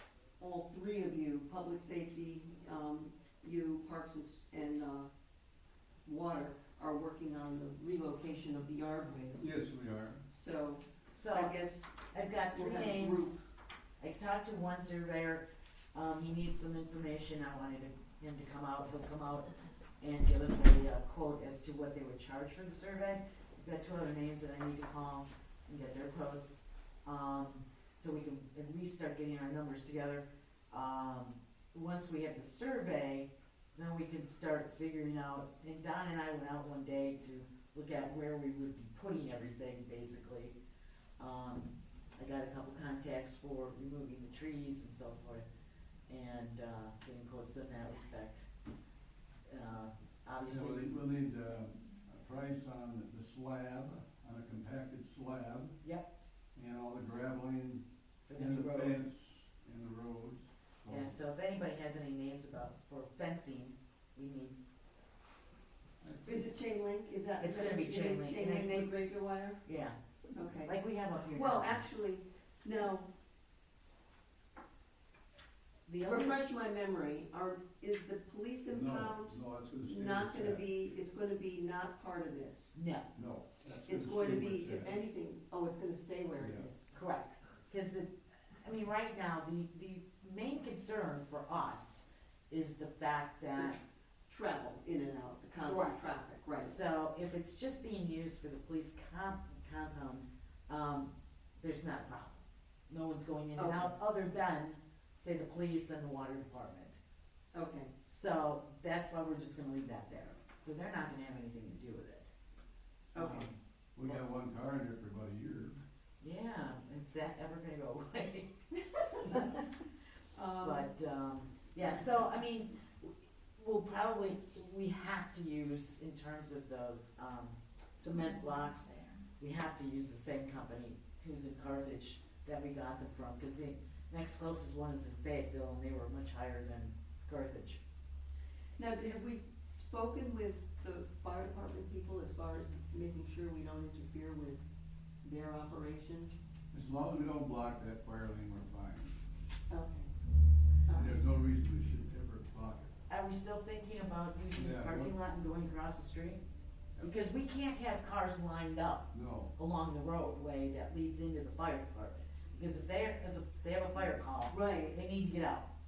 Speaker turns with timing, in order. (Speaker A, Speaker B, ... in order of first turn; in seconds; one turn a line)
Speaker A: 0.4-5.1
Speaker A: 6.0-9.6
Speaker B: 9.4-10.2
Speaker A: 10.3-12.0
Speaker C: 11.1-11.6
Speaker C: 12.1-13.5
Speaker A: 12.5-13.4
Speaker C: 14.0-40.5
Speaker C: 41.2-45.5
Speaker C: 46.1-48.5
Speaker C: 49.5-50.9
Speaker B: 50.5-55.8
Speaker C: 55.8-56.1
Speaker B: 56.5-61.2
Speaker C: 58.3-59.0
Speaker C: 60.9-64.6
Speaker B: 66.0-66.3
Speaker A: 66.2-69.6
Speaker C: 67.4-68.9
Speaker C: 69.6-70.0
Speaker A: 70.3-73.1
Speaker C: 70.6-71.8
Speaker C: 75.9-76.3
Speaker A: 76.0-82.8
Speaker B: 78.7-80.7
Speaker C: 82.7-83.1
Speaker B: 83.2-85.0
Speaker A: 83.9-86.9
Speaker B: 86.4-86.7
Speaker C: 86.9-93.8
Speaker A: 93.6-96.8
Speaker C: 95.6-107.0
Speaker A: 103.6-103.9
Speaker A: 107.5-107.9
Speaker C: 108.1-112.3
Speaker A: 113.1-113.5
Speaker C: 113.2-114.2
Speaker B: 114.0-115.8
Speaker C: 116.2-119.7
Speaker A: 120.3-120.9
Speaker C: 120.6-137.8
Speaker A: 138.8-144.6
Speaker A: 145.2-146.4
Speaker B: 146.7-149.2
Speaker A: 149.7-150.1
Speaker A: 150.9-151.2
Speaker B: 150.9-152.9
Speaker C: 153.1-156.4
Speaker B: 154.5-155.2
Speaker C: 157.0-165.7
Speaker B: 159.1-159.5
Speaker A: 164.5-165.0